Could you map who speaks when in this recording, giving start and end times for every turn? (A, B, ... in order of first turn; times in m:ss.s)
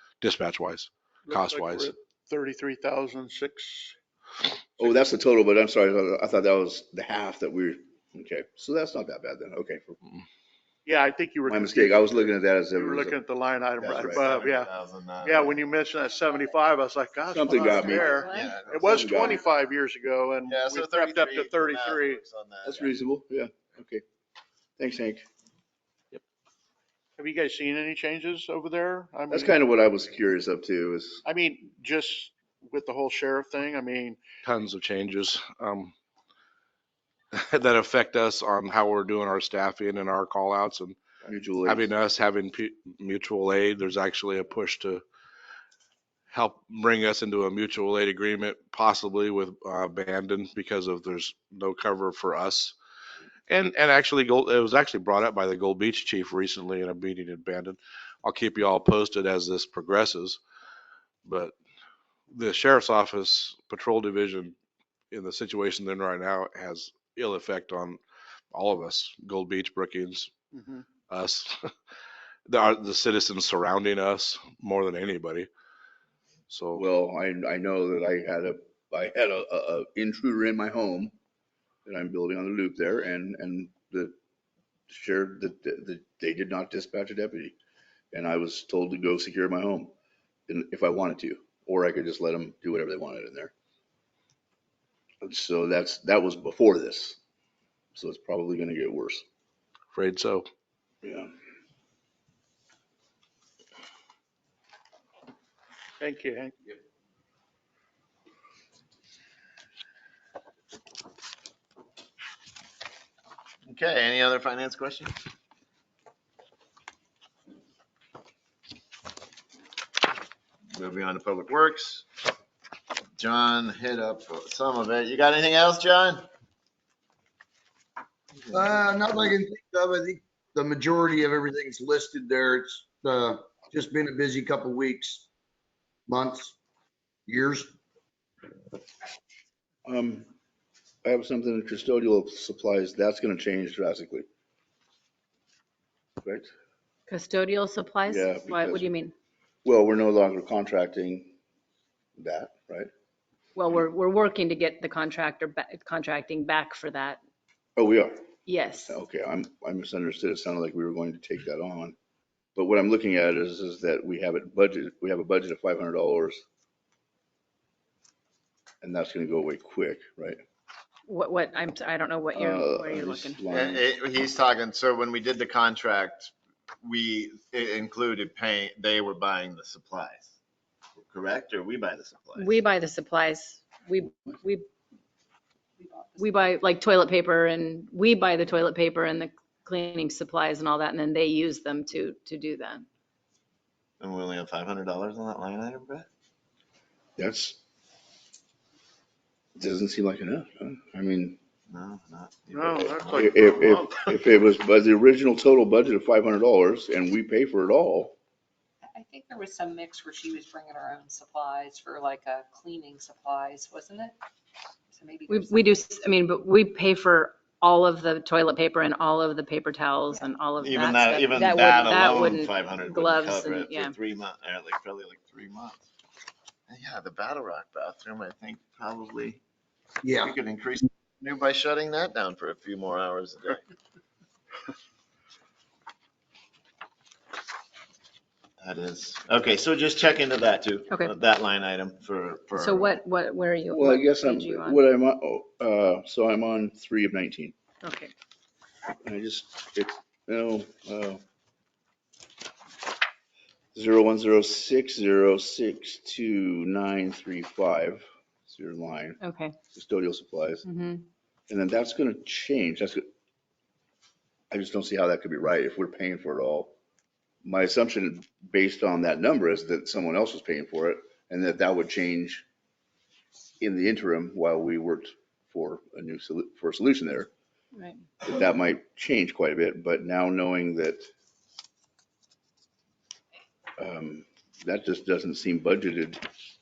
0:00.2-0:01.9 A
0:01.2-0:04.0 B
0:04.8-0:10.0 C
0:10.8-0:12.2 B
0:11.5-0:13.2 C
0:12.7-0:22.2 B
0:13.8-0:14.3 C
0:14.0-0:15.6 D
0:17.3-0:18.2 C
0:17.4-0:18.6 E
0:18.2-0:19.0 D
0:18.8-0:19.4 C
0:20.4-0:22.9 D
0:22.6-0:24.0 C
0:24.8-0:25.2 C
0:27.2-0:29.5 B
0:29.3-0:31.2 C
0:31.2-0:34.2 B
0:34.4-0:35.9 A
0:37.3-0:41.0 A
0:41.2-0:41.9 C
0:41.7-0:45.0 A
0:46.3-0:52.7 A
0:53.5-1:00.4 A
1:01.2-1:01.5 A
1:02.3-1:04.6 A
1:05.1-1:08.0 A
1:08.5-1:10.3 A
1:10.5-1:10.8 B
1:11.1-1:11.7 A
1:12.4-1:15.5 A
1:16.5-1:16.8 A
1:16.8-1:21.1 C
1:21.8-1:24.1 C
1:24.9-1:27.6 C
1:28.1-1:29.9 C
1:30.5-1:33.5 C
1:35.2-1:37.2 C
1:37.9-1:39.2 C
1:39.9-1:40.5 A
1:41.0-1:41.3 C
1:46.0-1:46.6 B
1:53.6-1:55.1 D
2:00.7-2:02.0 D
2:03.2-2:06.2 D
2:08.5-2:15.3 F
2:16.1-2:16.6 F
2:17.2-2:17.7 F
2:19.8-2:20.3 C
2:21.0-2:24.2 C
2:26.2-2:26.5 C
2:27.1-2:29.1 E
2:28.1-2:28.9 C
2:29.6-2:31.3 C
2:32.2-2:32.9 C
2:33.5-2:37.2 E
2:37.8-2:38.2 C
2:38.5-2:39.0 E
2:38.7-2:41.9 C
2:42.5-2:46.4 C
2:48.8-2:50.4 C
2:51.1-2:53.4 E
2:52.3-2:53.8 C
2:53.5-3:00.3 D
3:01.0-3:02.6 D
3:02.4-3:04.6 E
3:05.8-3:06.6 G
3:06.2-3:12.8 E
3:14.0-3:16.1 D
3:17.2-3:17.6 C
3:19.6-3:21.4 C
3:21.7-3:23.3 D
3:22.5-3:24.2 B
3:23.1-3:28.1 C
3:28.8-3:34.2 G
3:34.9-3:35.9 G
3:35.3-3:43.9 E
3:40.6-3:45.8 D
3:46.7-3:49.4 D
3:50.0-3:50.3 F
3:50.2-3:53.6 D
3:58.6-4:03.0 D
4:02.5-4:04.8 E
4:03.7-4:07.5 C
4:07.8-4:08.1 E
4:09.0-4:11.2 C
4:13.7-4:19.2 C
4:19.2-4:19.5 E
4:19.7-4:20.6 C
4:20.6-4:21.0 E
4:21.5-4:23.0 C
4:24.5-4:26.7 C
4:27.4-4:32.4 C
4:33.6-4:37.3 C
4:37.7-4:38.0 E
4:38.2-4:41.0 C
4:43.8-4:46.2 C